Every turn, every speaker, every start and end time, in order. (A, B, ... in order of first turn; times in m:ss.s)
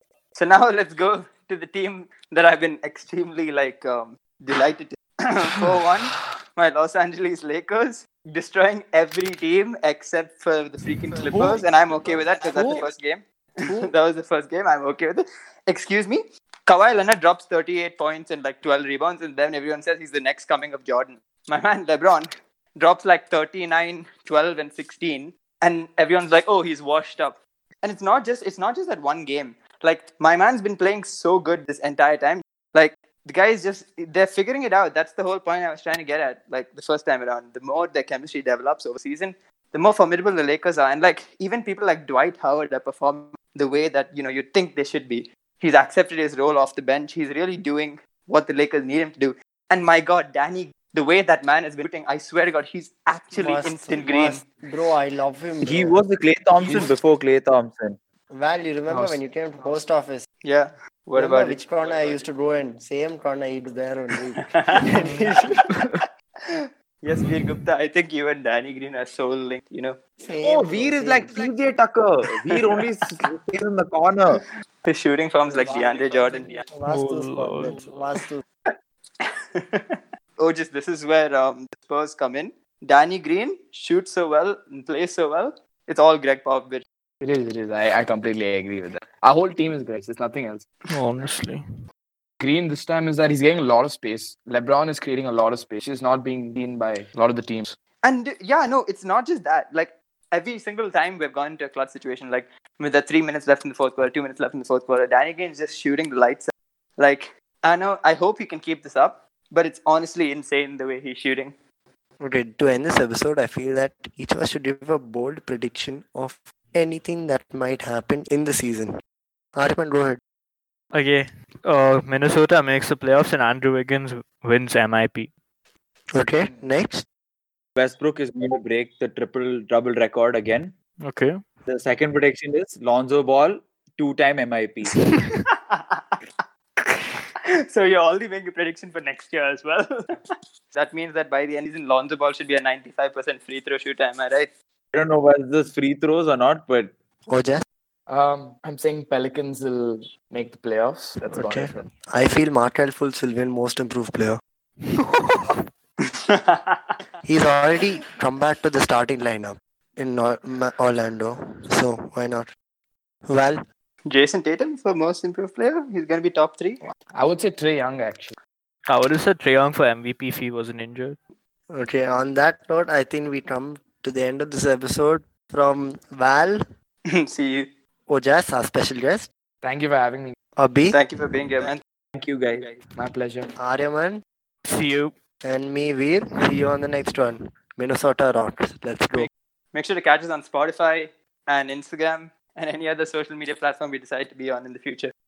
0:00.3-0:54.4 A
0:11.3-0:11.6 B
0:12.4-0:12.8 B
0:53.3-0:56.0 C
0:55.6-0:58.0 B
0:56.6-0:56.9 D
0:58.3-1:00.2 C
0:58.9-0:59.2 D
1:00.4-1:02.2 A
1:01.2-1:05.6 C
1:04.4-1:05.4 A
1:04.9-1:05.3 E
1:07.0-1:10.0 A
1:10.2-1:11.4 C
1:10.4-1:14.4 B
1:12.4-1:12.8 A
1:14.8-1:16.6 A
1:15.5-1:16.6 D
1:16.7-1:18.4 C
1:16.9-1:17.7 E
1:19.2-1:26.8 A
1:27.2-1:30.6 D
1:30.9-1:31.6 E
1:32.4-1:37.7 D
1:38.0-1:51.6 A
1:52.2-1:58.9 C
1:59.6-2:00.2 C
2:00.9-2:05.3 E
2:06.1-2:07.0 C
2:07.8-2:10.7 B
2:11.0-2:11.4 E
2:11.7-2:14.9 B
2:15.7-2:16.2 A
2:17.6-2:19.9 A
2:20.7-2:24.5 A
2:24.9-2:27.0 B
2:27.3-2:27.6 C
2:28.1-2:31.8 D
2:31.3-2:34.4 C
2:36.2-2:36.9 A
2:37.2-2:42.5 C
2:43.3-2:43.6 C
2:44.1-2:46.8 A
2:47.1-2:48.4 D
2:48.9-2:51.2 E
2:51.7-2:56.6 C
2:57.1-2:57.7 A
2:58.1-2:59.3 C
2:59.6-3:00.4 D
3:00.6-3:01.0 C
3:00.9-3:01.8 A
3:02.2-3:02.7 B
3:02.9-3:03.5 D
3:03.6-3:04.2 C
3:04.7-3:05.1 E
3:05.4-3:09.3 C
3:09.1-3:15.1 A